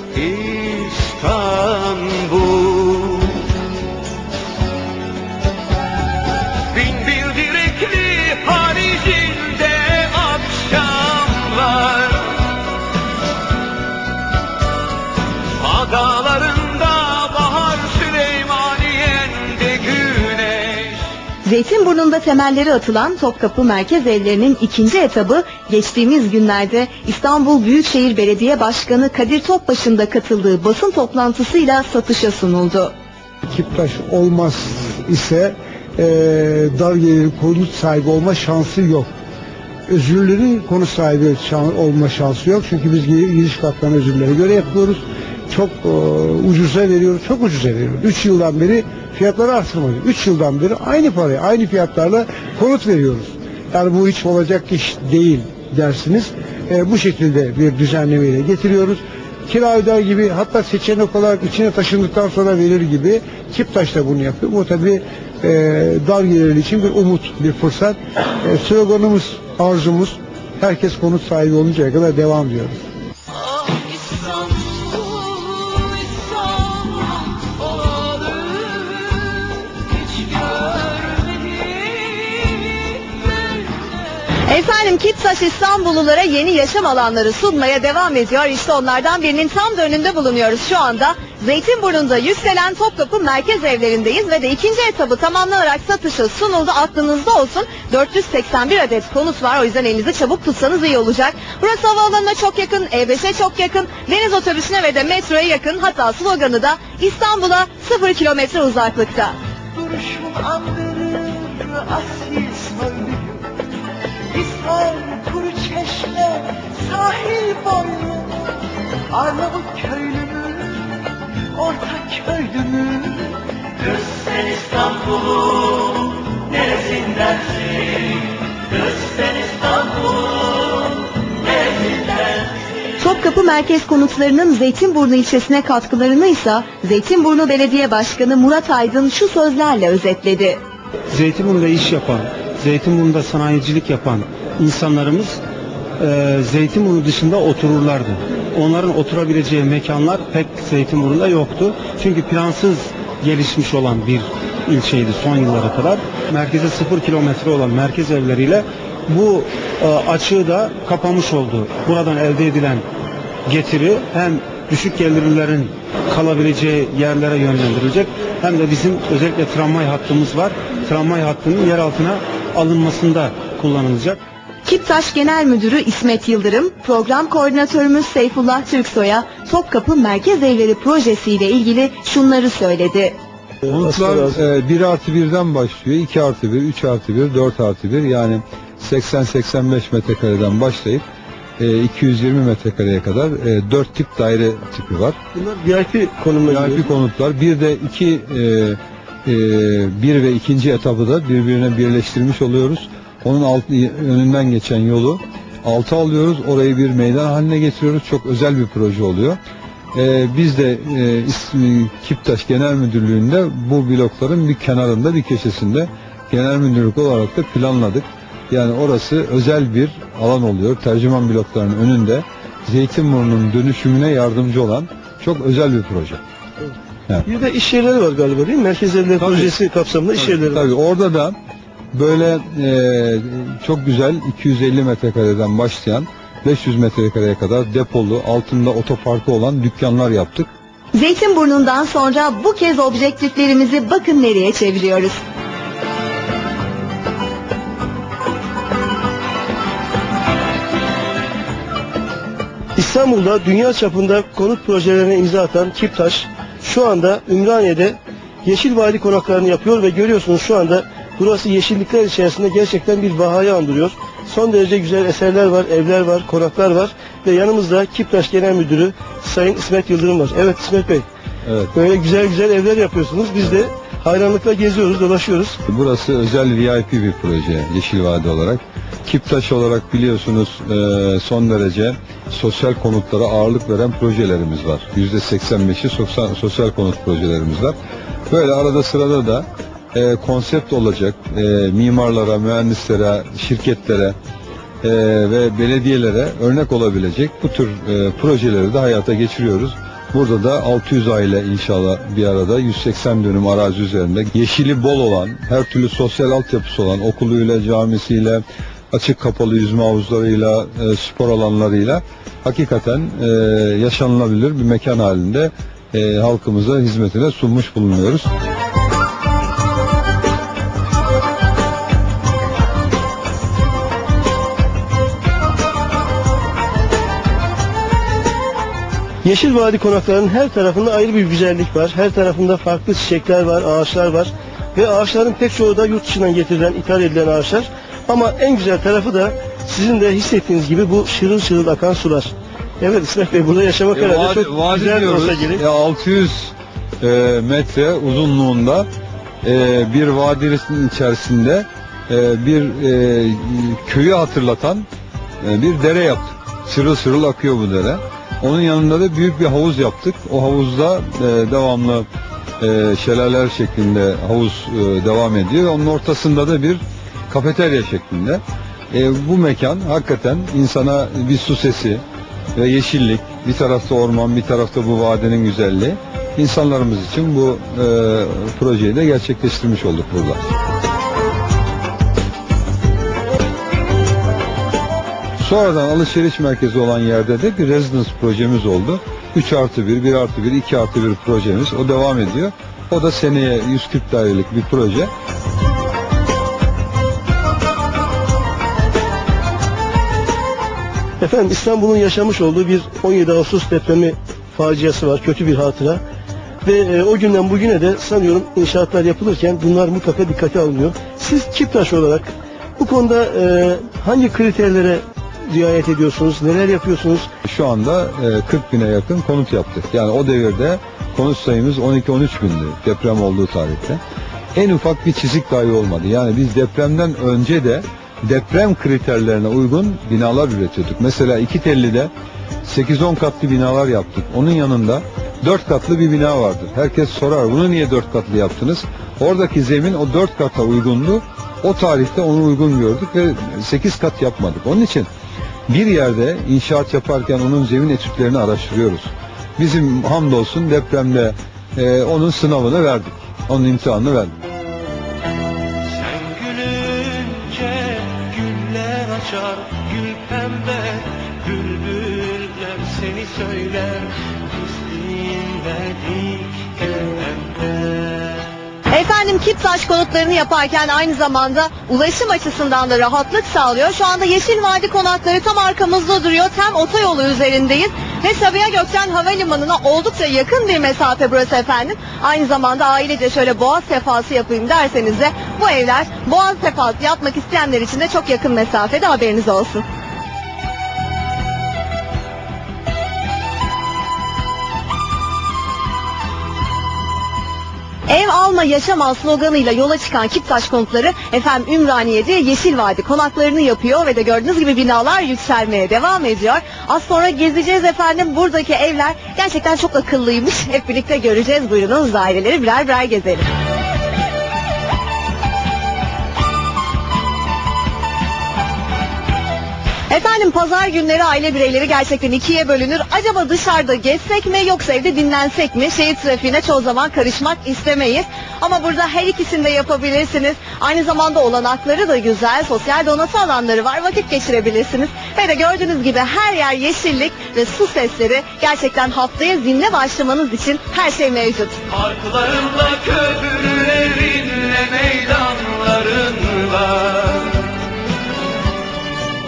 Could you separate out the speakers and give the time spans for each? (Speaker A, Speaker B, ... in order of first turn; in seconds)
Speaker A: 0.1-3.4, 6.7-12.4, 15.6-21.0, 73.9-74.4, 76.7-78.3, 541.9-547.7
Speaker B: 21.4-32.9, 84.5-109.3, 133.0-140.6, 174.7-183.2, 240.9-245.2, 468.9-489.9, 498.1-513.5, 520.1-541.8
Speaker C: 33.5-39.1, 39.9-72.8
Speaker D: 109.8-113.4, 114.3-118.3, 119.1-120.5, 121.6-122.8, 183.7-184.4, 195.3-196.9, 227.2-230.7, 252.8-271.1, 271.7-275.6, 329.2-345.6, 401.2-406.0, 406.6-417.3
Speaker E: 141.1-145.4, 146.0-162.8, 163.5-174.2, 455.9-468.4
Speaker F: 183.7-191.0, 191.6-195.2, 196.5-209.4, 209.9-226.2, 229.2-229.5, 230.2-231.3, 231.9-240.5, 271.5-271.7, 275.7-287.8, 288.3-294.1, 294.8-318.3, 343.9-348.9, 349.4-354.9, 355.4-362.1, 362.6-372.0, 372.6-380.4, 385.4-395.1, 417.4-424.0, 424.6-432.1, 432.6-445.1, 445.7-454.3